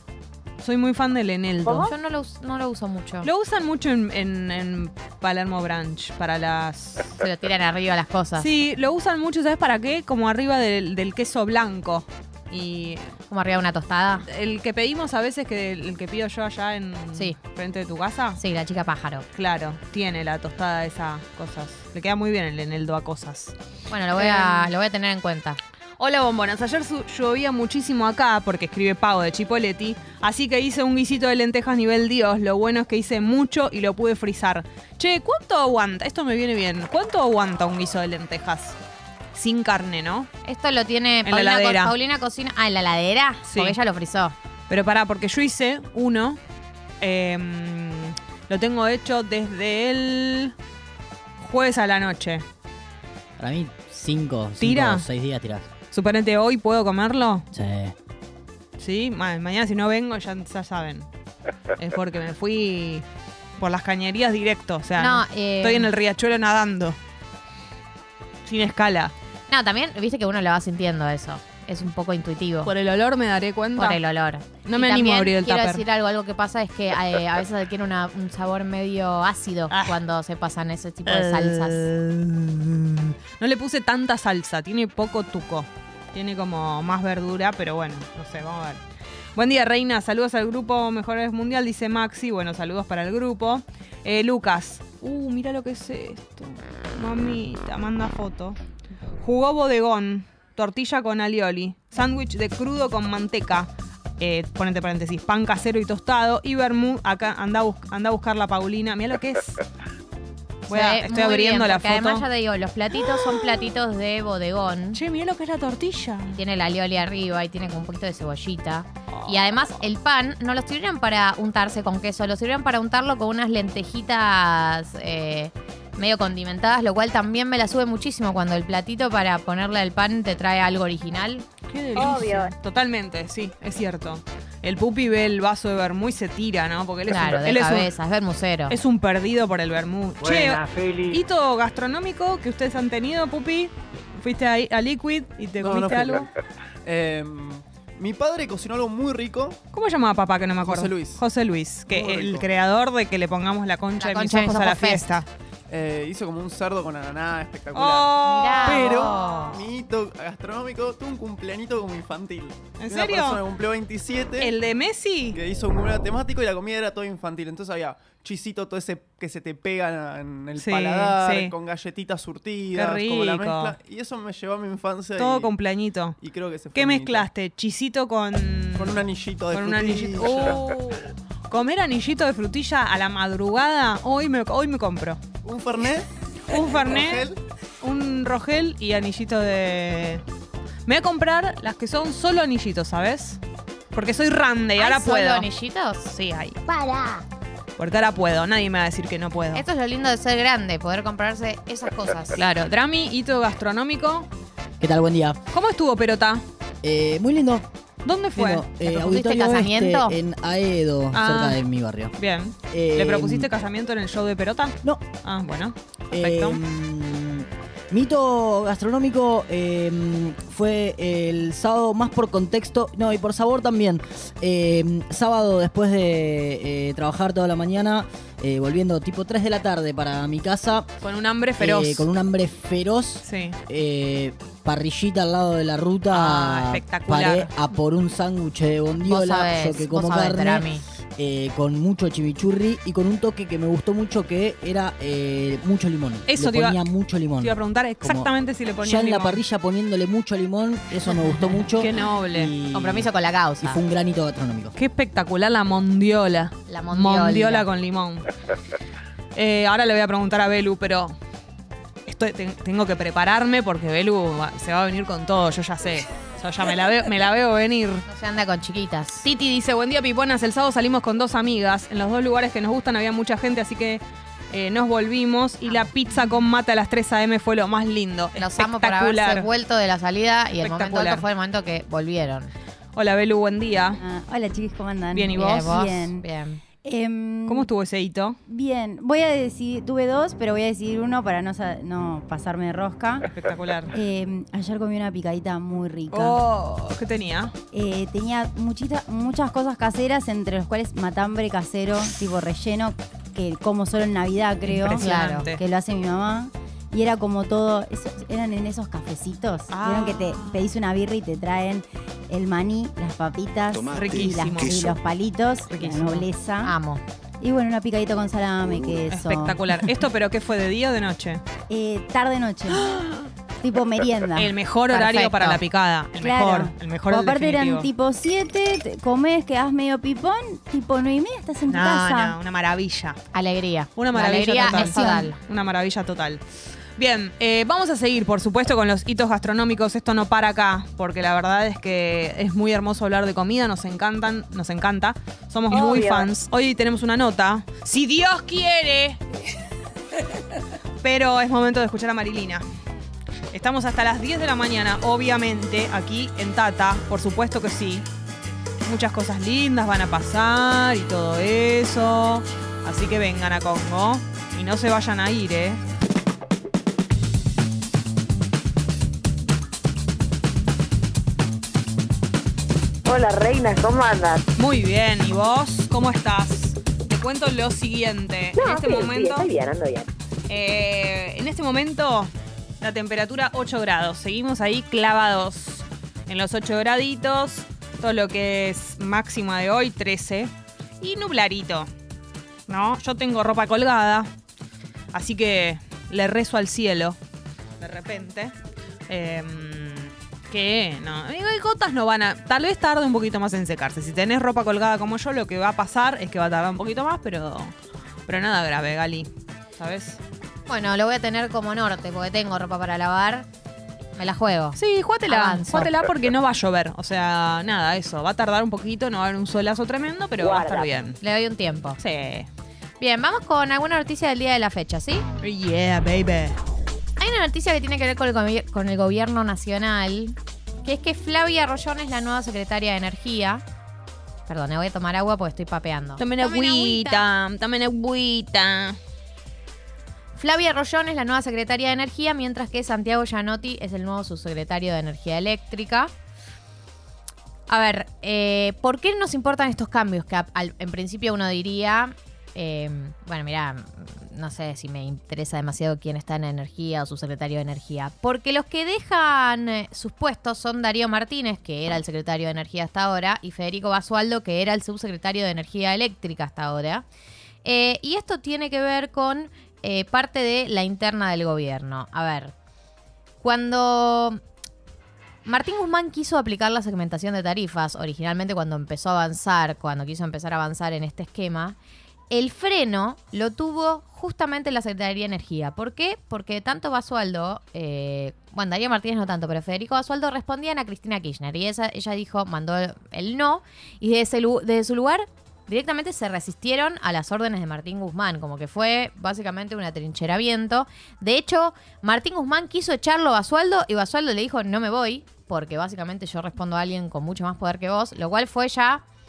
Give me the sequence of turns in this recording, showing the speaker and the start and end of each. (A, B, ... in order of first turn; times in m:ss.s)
0:00.6-0:01.9 A
0:01.7-0:03.3 B
0:03.2-0:07.1 A
0:07.2-0:08.5 B
0:08.4-0:13.1 A
0:13.3-0:14.2 B
0:14.3-0:18.4 A
0:18.4-0:19.2 B
0:19.4-0:23.5 A
0:23.9-0:25.6 B
0:24.2-0:24.7 A
0:26.0-0:38.8 A
0:39.3-0:40.3 A
0:40.4-0:44.4 B
0:41.2-0:41.9 A
0:43.5-0:43.8 A
0:44.7-0:46.4 A
0:47.0-0:50.6 A
0:51.4-0:52.4 A
0:53.4-0:55.7 C
0:54.6-0:55.1 A
0:55.9-0:57.5 A
0:57.5-0:57.9 C
0:58.8-1:01.1 A
1:01.8-1:03.0 A
1:03.6-1:07.0 A
1:05.0-1:05.9 B
1:08.5-1:09.1 A
1:09.5-1:12.7 B
1:12.6-1:14.0 A
1:13.8-1:21.9 B
1:14.6-1:15.8 A
1:19.7-1:20.0 A
1:21.1-1:28.8 A
1:29.4-1:38.6 A
1:39.2-1:49.6 A
1:50.7-1:52.2 A
1:50.7-1:55.0 B
1:52.9-1:53.4 A
1:54.9-1:56.4 A
1:56.4-2:11.5 B
1:59.1-1:59.6 A
2:11.7-2:17.9 A
2:12.0-2:12.5 D
2:17.1-2:18.8 B
2:18.7-2:26.3 A
2:25.6-2:26.3 E
2:26.8-2:29.6 E
2:29.7-2:35.3 A
2:30.6-2:31.2 E
2:31.9-2:32.5 E
2:34.0-2:35.1 B
2:35.7-2:44.5 E
2:37.7-2:39.6 A
2:38.2-2:39.6 B
2:42.8-2:43.4 A
2:44.4-2:45.4 A
2:45.3-2:55.6 E
2:50.6-2:51.6 A
2:52.8-2:53.8 A
2:55.2-2:56.2 A
2:56.2-2:57.3 E
2:56.7-3:05.2 A
2:58.8-3:00.6 E
3:05.4-3:07.4 E
3:06.5-3:07.2 A
3:07.8-3:10.2 A
3:10.9-3:13.4 A
3:13.9-3:15.5 A
3:14.8-3:16.1 B
3:16.1-3:16.6 A
3:16.7-3:17.1 D
3:17.8-3:19.6 A
3:19.5-3:22.4 B
3:22.4-3:24.3 A
3:24.8-3:25.4 C
3:25.5-3:26.4 A
3:26.8-3:27.6 C
3:28.0-3:28.7 A
3:28.3-3:32.1 C
3:28.8-3:30.2 B
3:31.1-3:31.6 A
3:32.2-3:36.6 A
3:32.6-3:33.5 C
3:36.1-3:50.9 C
3:51.0-3:52.1 A
3:51.6-4:13.1 C
3:53.2-3:53.6 A
3:56.1-3:57.5 A
3:59.0-4:00.8 B
4:06.3-4:06.8 A
4:07.4-4:09.4 A
4:11.3-4:12.6 A
4:12.7-4:13.8 B
4:13.6-4:14.7 C
4:14.8-4:18.3 A
4:16.7-4:17.7 B
4:19.4-4:21.2 A
4:22.1-4:28.0 A
4:28.1-4:29.3 B
4:29.2-4:39.5 A
4:35.6-4:35.9 B
4:38.4-4:42.5 B
4:40.6-4:41.2 A
4:43.0-4:44.0 A
4:44.0-4:46.2 F
4:45.1-4:45.8 A
4:45.4-4:46.6 B
4:46.8-4:47.7 F
4:47.5-4:48.4 A
4:48.5-4:53.2 F
4:53.3-4:53.9 A
4:53.9-4:56.4 F
4:56.1-4:57.5 A
4:57.7-5:16.7 F
5:04.7-5:05.6 A
5:05.0-5:05.5 B
5:09.7-5:10.6 A
5:13.9-5:15.0 A
5:15.7-5:16.3 A
5:16.6-5:17.0 B
5:17.4-5:19.9 F
5:19.1-5:21.4 A
5:21.7-5:22.8 F
5:22.7-5:23.3 A
5:23.6-5:24.6 F
5:24.4-5:27.9 A
5:24.9-5:25.6 B
5:26.2-5:32.4 F
5:31.7-5:33.2 A
5:33.3-5:35.4 B
5:34.0-5:36.4 A
5:34.6-5:35.3 F
5:37.0-5:49.2 A
5:45.7-5:46.3 D
5:51.0-5:52.6 A
5:53.5-5:58.1 A
5:58.8-6:05.8 A
6:13.0-6:14.4 D
6:14.6-6:19.5 A
6:18.6-6:20.1 D
6:20.5-6:31.9 A
6:32.7-6:34.3 A
6:35.1-6:37.2 A
6:37.8-6:38.5 A
6:39.1-6:47.7 A
6:48.3-6:50.2 A
6:50.7-6:53.5 B
6:54.2-6:55.9 B
6:54.8-7:01.2 A
7:00.4-7:01.0 D
7:01.2-7:02.0 B
7:02.0-7:02.5 A
7:03.0-7:05.2 B
7:05.4-7:06.6 A
7:07.2-7:13.6 B
7:14.5-7:17.2 B
7:16.2-7:19.0 A
7:20.4-7:26.1 B
7:27.7-7:47.0 B
7:47.6-7:52.5 B
7:53.4-7:54.4 B
7:55.5-8:01.8 B
8:02.3-8:29.0 B